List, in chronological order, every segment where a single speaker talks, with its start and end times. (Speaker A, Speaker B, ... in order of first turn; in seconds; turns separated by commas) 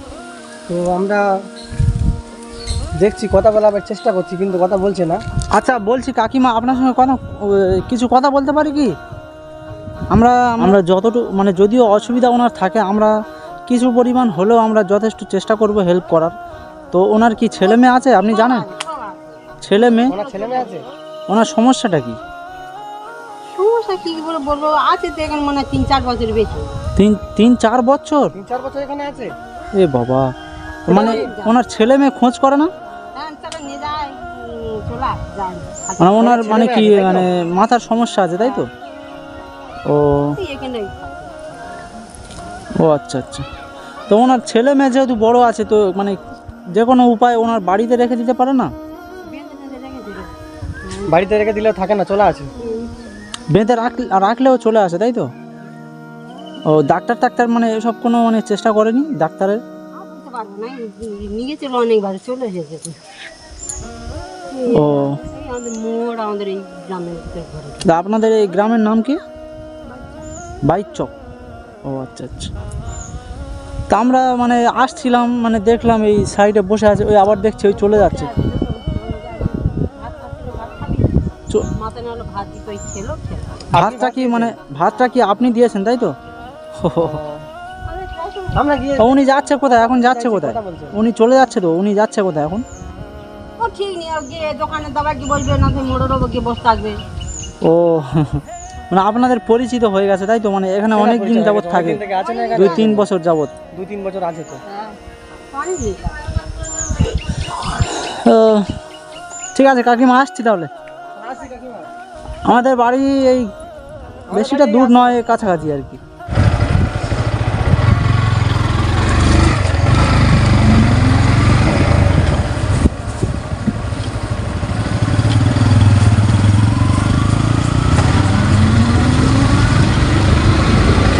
Speaker A: 0.7-1.2, Speaker A: 3.0-5.2, Speaker B: 5.6-8.9, Speaker B: 10.1-13.1, Speaker B: 13.7-16.3, Speaker B: 16.9-18.7, Speaker C: 17.6-20.8, Speaker B: 19.6-20.1, Speaker A: 20.1-20.8, Speaker B: 21.3-22.2, Speaker C: 23.6-26.7, Speaker B: 27.0-28.3, Speaker A: 28.3-29.3, Speaker B: 29.8-30.3, Speaker B: 30.9-32.7, Speaker A: 30.9-31.3, Speaker C: 30.9-31.6, Speaker C: 33.1-36.3, Speaker B: 36.0-38.7, Speaker A: 36.2-37.3, Speaker C: 38.4-38.7, Speaker B: 39.9-40.3, Speaker C: 40.4-41.3, Speaker B: 42.8-43.5, Speaker B: 44.1-46.2, Speaker B: 46.7-48.7, Speaker C: 49.3-50.3, Speaker C: 50.9-51.1, Speaker A: 51.1-52.5, Speaker C: 52.6-52.9, Speaker B: 53.5-55.3, Speaker B: 56.7-59.6, Speaker C: 60.0-63.0, Speaker C: 64.5-68.2, Speaker B: 64.7-65.2, Speaker B: 67.8-69.2, Speaker C: 69.9-70.2, Speaker B: 70.7-71.1, Speaker B: 71.8-72.5, Speaker B: 73.9-78.3, Speaker C: 77.7-81.1, Speaker C: 81.7-83.7, Speaker A: 83.7-84.6, Speaker B: 83.7-86.1, Speaker B: 86.8-87.2, Speaker A: 87.0-87.4, Speaker C: 87.9-88.9, Speaker A: 88.5-89.1, Speaker B: 89.0-92.7, Speaker A: 89.6-91.0, Speaker C: 93.6-97.0, Speaker B: 97.6-102.0, Speaker A: 100.9-103.1, Speaker C: 102.1-103.0, Speaker B: 102.5-103.5, Speaker A: 103.7-104.6, Speaker C: 104.7-105.0, Speaker C: 105.5-106.3, Speaker B: 107.9-108.7, Speaker B: 109.5-110.7, Speaker A: 111.2-111.9, Speaker B: 112.5-113.5, Speaker A: 114.3-115.3, Speaker B: 114.3-116.0